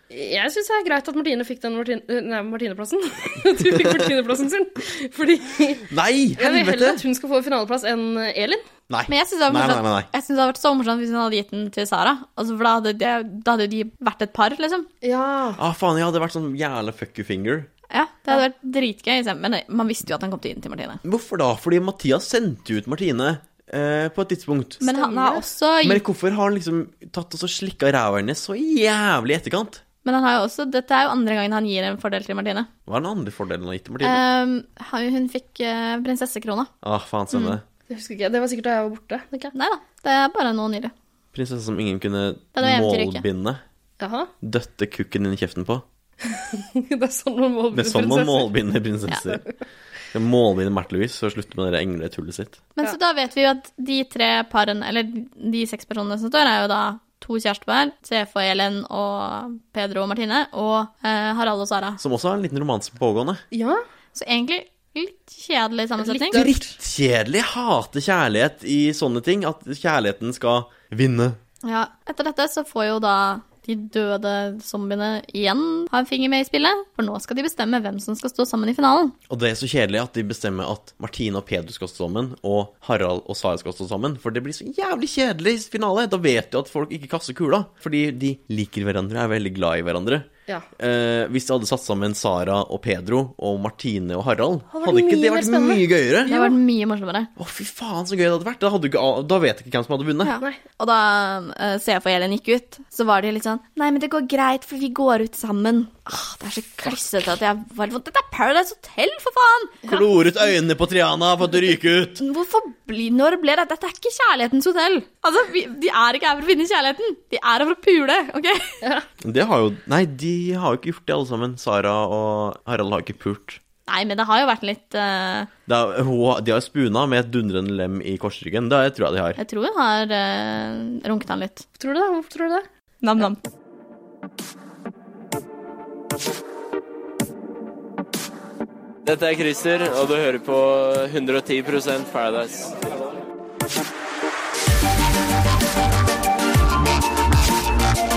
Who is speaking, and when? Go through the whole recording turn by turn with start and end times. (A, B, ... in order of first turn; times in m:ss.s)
0:00.1-0:08.6 A
0:05.9-0:07.0 B
0:08.9-0:10.1 B
0:09.1-0:14.9 C
0:15.0-0:15.6 A
0:15.6-0:17.7 B
0:17.9-0:21.0 C
0:21.0-0:24.8 B
0:24.8-0:26.0 C
0:24.8-0:25.4 A
0:25.8-0:29.8 B
0:30.0-0:32.7 C
0:32.9-0:34.2 B
0:34.0-0:36.7 C
0:36.8-0:37.6 B
0:37.9-0:39.5 A
0:39.5-0:40.9 C
0:41.3-0:43.6 B
0:42.6-0:43.3 C
0:44.0-0:44.3 A
0:44.4-0:45.8 B
0:46.3-0:48.6 A
0:47.7-0:49.4 B
0:50.1-0:52.6 B
0:52.8-1:02.0 C
1:02.0-1:03.4 B
1:03.5-1:03.8 A
1:04.1-1:06.4 C
1:06.0-1:06.7 A
1:06.3-1:11.4 B
1:11.6-1:19.2 C
1:19.3-1:36.3 B
1:34.7-1:36.5 A
1:36.3-1:37.3 C
1:37.4-1:40.4 B
1:40.2-1:49.8 C
1:49.9-1:52.2 B
1:52.2-1:58.8 C
1:59.2-2:03.6 B
2:03.9-2:05.5 C
2:05.7-2:09.4 B
2:09.4-2:11.6 C
2:11.8-2:12.7 A
2:13.0-2:13.4 C
2:19.0-2:22.8 D